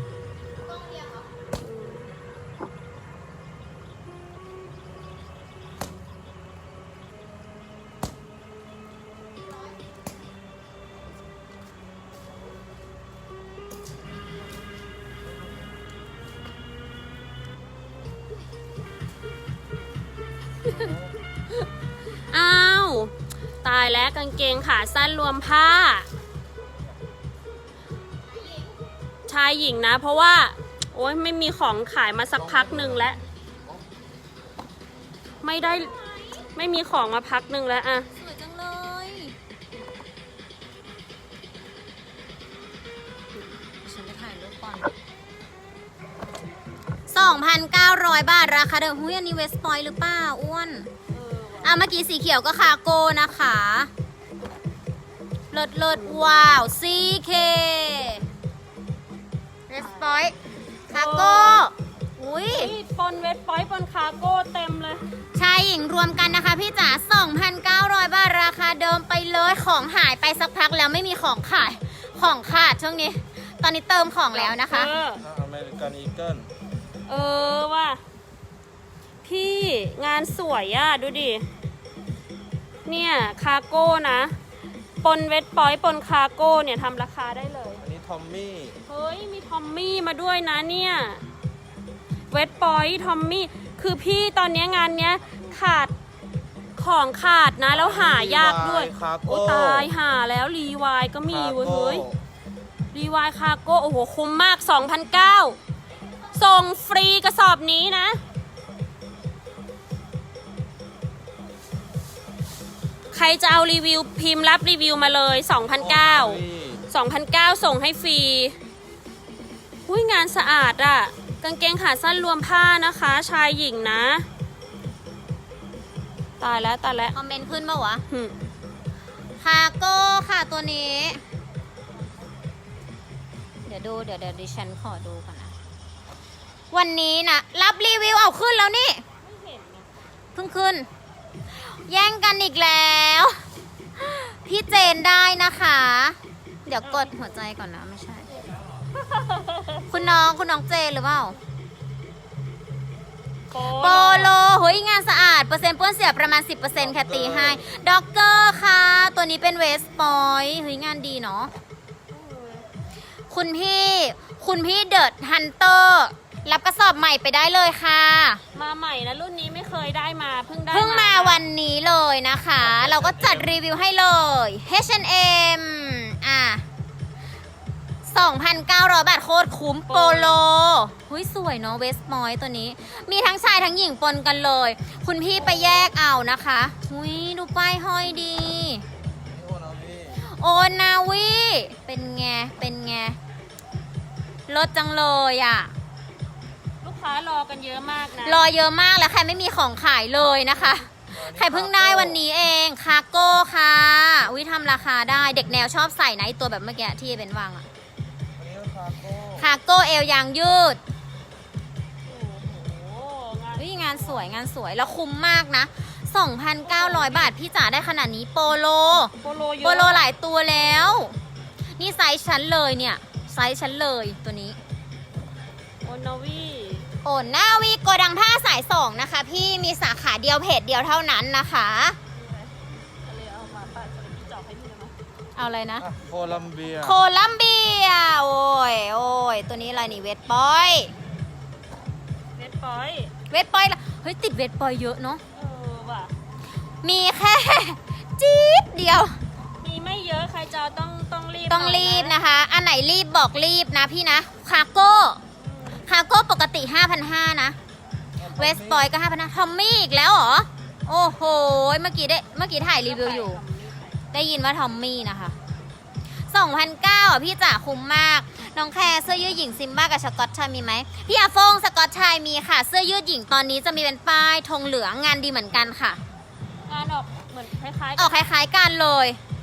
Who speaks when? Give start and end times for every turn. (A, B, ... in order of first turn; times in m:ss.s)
0:00.8-0:01.1 A
0:01.6-0:02.1 B
0:20.6-0:20.9 B
0:22.3-0:26.1 B
0:29.3-0:33.2 B
0:32.6-0:32.9 C
0:35.4-0:35.9 B
0:36.5-0:38.1 B
0:38.2-0:39.4 A
0:43.8-0:44.9 A
0:47.1-0:50.9 A
0:51.1-0:51.8 B
0:51.6-0:53.9 A
0:55.5-0:58.2 A
0:59.7-1:00.4 A
0:59.8-1:00.3 B
1:00.9-1:02.7 A
1:00.9-1:01.7 B
1:02.5-1:05.1 B
1:05.4-1:14.9 A
1:14.3-1:15.2 B
1:15.2-1:16.5 C
1:17.1-1:18.0 B
1:19.2-1:21.5 B
1:22.9-1:24.4 B
1:25.0-1:27.9 B
1:27.8-1:28.8 C
1:28.9-1:31.2 B
1:32.3-1:35.9 B
1:36.8-1:42.1 B
1:37.7-1:39.9 C
1:41.3-1:42.2 C
1:42.9-1:45.6 B
1:46.3-1:48.2 B
1:53.1-1:58.6 B
1:55.8-1:56.8 C
1:59.9-2:04.3 B
2:06.4-2:07.2 B
2:07.1-2:08.0 A
2:08.1-2:08.4 B
2:09.4-2:11.2 A
2:13.7-2:15.5 A
2:16.7-2:19.0 A
2:19.2-2:20.0 B
2:20.4-2:20.9 A
2:21.5-2:23.4 A
2:24.0-2:28.4 A
2:26.8-2:27.2 B
2:28.9-2:29.9 B
2:29.9-2:31.4 A
2:33.5-2:34.3 B
2:33.6-2:41.5 A
2:36.9-2:37.6 C
2:42.1-2:42.7 B
2:43.3-2:48.4 A
2:48.5-2:51.4 B
2:50.7-2:56.6 A
2:52.7-2:53.4 C
2:58.0-3:08.8 A
2:59.9-3:00.5 B
3:09.3-3:10.2 C
3:10.2-3:13.2 A
3:14.5-3:15.7 A
3:16.8-3:18.4 B
3:18.2-3:27.7 A
3:21.2-3:22.2 C
3:28.4-3:29.5 C
3:29.3-3:30.8 A
3:32.0-3:34.3 B
3:33.6-3:41.2 A
3:36.6-3:37.3 B
3:39.2-3:40.1 B
3:41.8-3:44.6 A
3:45.8-3:46.9 B
3:47.0-3:52.0 A
3:52.1-3:55.0 B
3:55.4-3:55.9 A
3:55.8-3:57.0 C
3:56.8-4:00.9 A
4:02.4-4:03.1 B
4:03.3-4:05.2 A
4:05.3-4:06.1 B
4:06.8-4:09.2 A
4:09.6-4:12.2 B
4:11.5-4:15.2 A
4:15.4-4:15.9 B
4:15.9-4:17.6 A
4:18.2-4:18.8 C
4:18.2-4:23.4 A
4:22.8-4:24.2 B
4:24.1-4:25.4 A
4:26.3-4:36.0 A
4:36.7-4:38.3 B
4:38.0-4:39.2 A